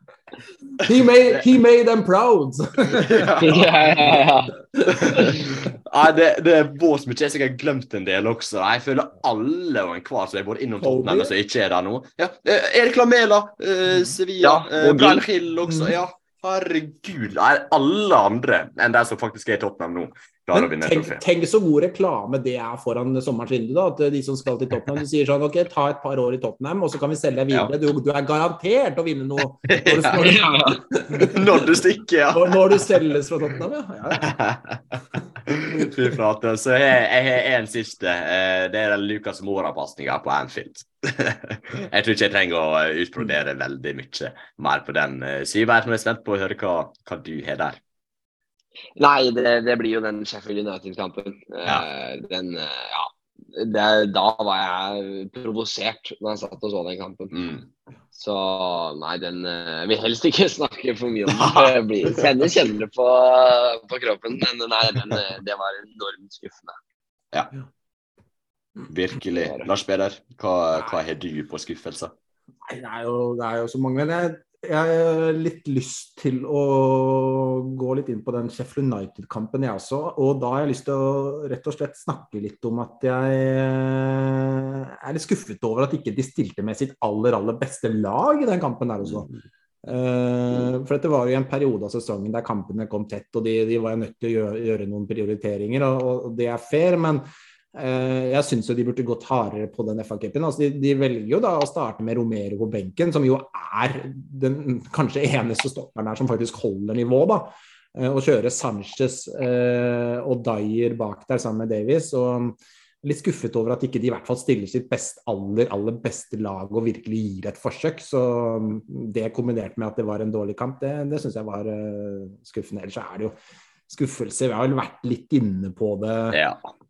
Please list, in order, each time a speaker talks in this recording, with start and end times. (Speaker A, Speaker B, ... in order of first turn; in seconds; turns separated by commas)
Speaker A: 0.8-3.3, Speaker B: 2.9-4.1, Speaker C: 3.4-4.5, Speaker A: 4.7-5.3, Speaker B: 4.8-21.2, Speaker A: 10.8-11.3, Speaker C: 14.4-15.2, Speaker A: 15.6-16.0, Speaker A: 20.5-31.8, Speaker B: 29.6-30.4, Speaker C: 30.2-30.8, Speaker B: 31.2-33.0, Speaker A: 32.3-34.3, Speaker B: 34.2-47.8, Speaker C: 49.0-57.3, Speaker B: 57.3-57.7, Speaker C: 58.1-66.8, Speaker B: 61.3-61.8, Speaker B: 68.8-72.1, Speaker C: 69.3-69.7, Speaker A: 72.6-89.3, Speaker A: 89.8-123.3, Speaker A: 123.9-126.4, Speaker B: 126.3-126.7